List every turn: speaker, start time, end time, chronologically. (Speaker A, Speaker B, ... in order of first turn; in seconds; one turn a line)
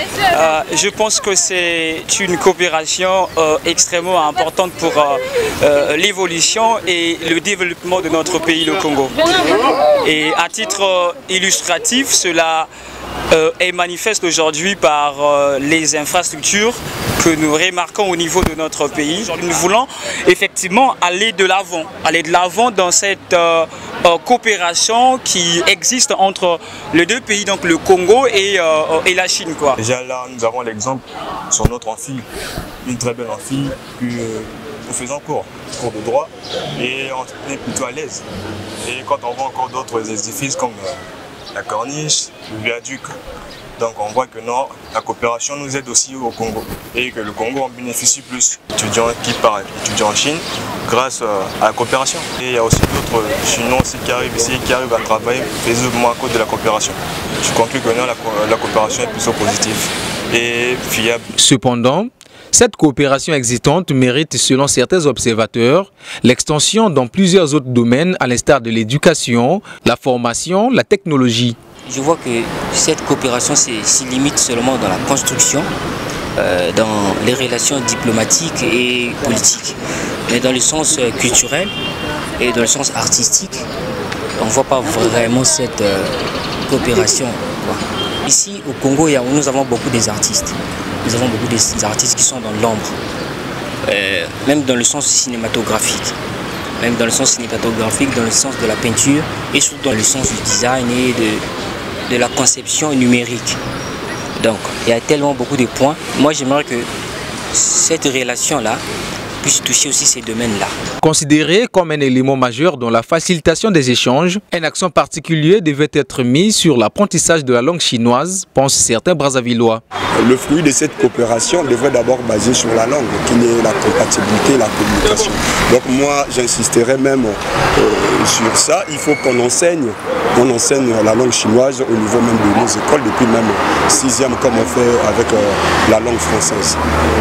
Speaker A: 0.3-12.7
Speaker A: 13.3-29.8
Speaker B: 29.8-32.2
Speaker B: 32.8-38.2
Speaker B: 38.8-41.0
Speaker B: 41.5-43.1
Speaker B: 43.8-61.2
Speaker C: 61.4-71.6
Speaker D: 71.9-75.7
Speaker D: 76.4-79.8
Speaker D: 80.3-81.7
Speaker D: 82.4-83.7
Speaker D: 84.4-93.0
Speaker D: 93.9-96.2
Speaker D: 96.8-101.4
Speaker D: 102.1-103.6
Speaker D: 104.4-106.9
Speaker D: 107.5-108.8
Speaker D: 109.4-110.7
Speaker C: 111.0-119.8
Speaker E: 120.2-136.8